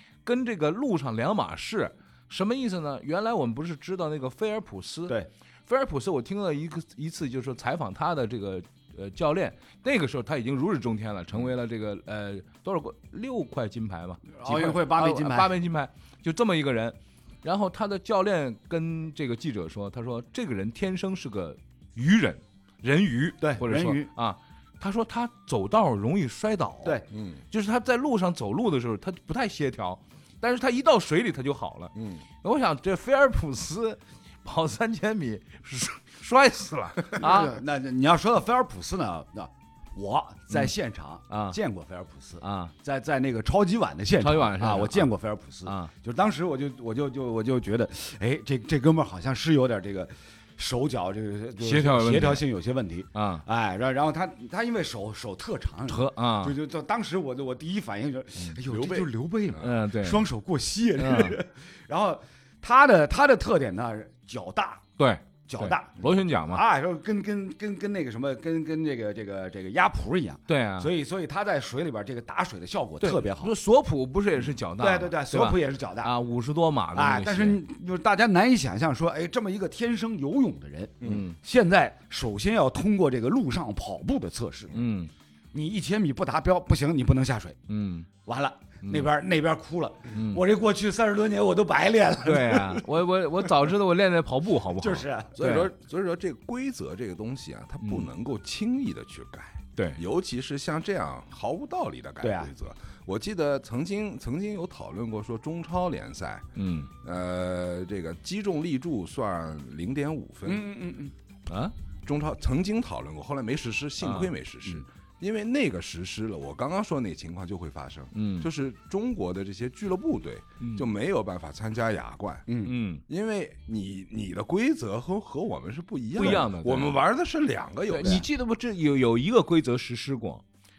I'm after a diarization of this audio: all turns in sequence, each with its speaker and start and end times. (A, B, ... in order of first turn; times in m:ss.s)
0:00.2-0:37.6 A
0:14.4-0:15.6 B
0:23.4-0:24.1 B
0:27.1-0:27.4 C
0:32.0-0:32.2 C
0:37.2-1:04.8 B
0:41.3-0:41.6 A
0:42.4-0:42.7 A
0:44.2-0:45.1 A
0:45.6-0:45.9 A
0:51.6-0:52.4 A
0:53.1-0:53.4 A
0:55.9-0:56.6 A
0:58.6-0:59.7 C
0:59.6-1:00.2 A
1:01.0-1:01.4 A
1:05.0-1:06.6 A
1:05.5-1:13.5 B
1:10.5-1:10.9 A
1:13.0-1:17.6 A
1:14.8-1:16.1 B
1:16.9-1:24.9 B
1:21.0-1:21.4 A
1:24.7-1:25.1 A
1:25.5-1:27.6 B
1:27.7-1:28.1 A
1:28.2-1:32.8 B
1:28.8-1:29.1 A
1:30.1-1:30.4 A
1:32.2-1:35.7 A
1:34.8-1:35.4 B
1:35.4-1:46.5 C
1:37.8-1:38.1 A
1:39.8-1:40.0 A
1:42.2-1:42.5 B
1:46.6-1:46.9 A
1:47.0-1:50.6 C
1:50.4-1:51.1 B
1:51.5-1:51.7 A
1:52.0-2:08.2 C
1:54.0-1:54.3 A
1:58.1-1:58.5 A
2:00.6-2:00.9 A
2:02.5-2:02.7 B
2:02.6-2:03.0 A
2:06.2-2:07.0 A
2:07.9-2:10.4 A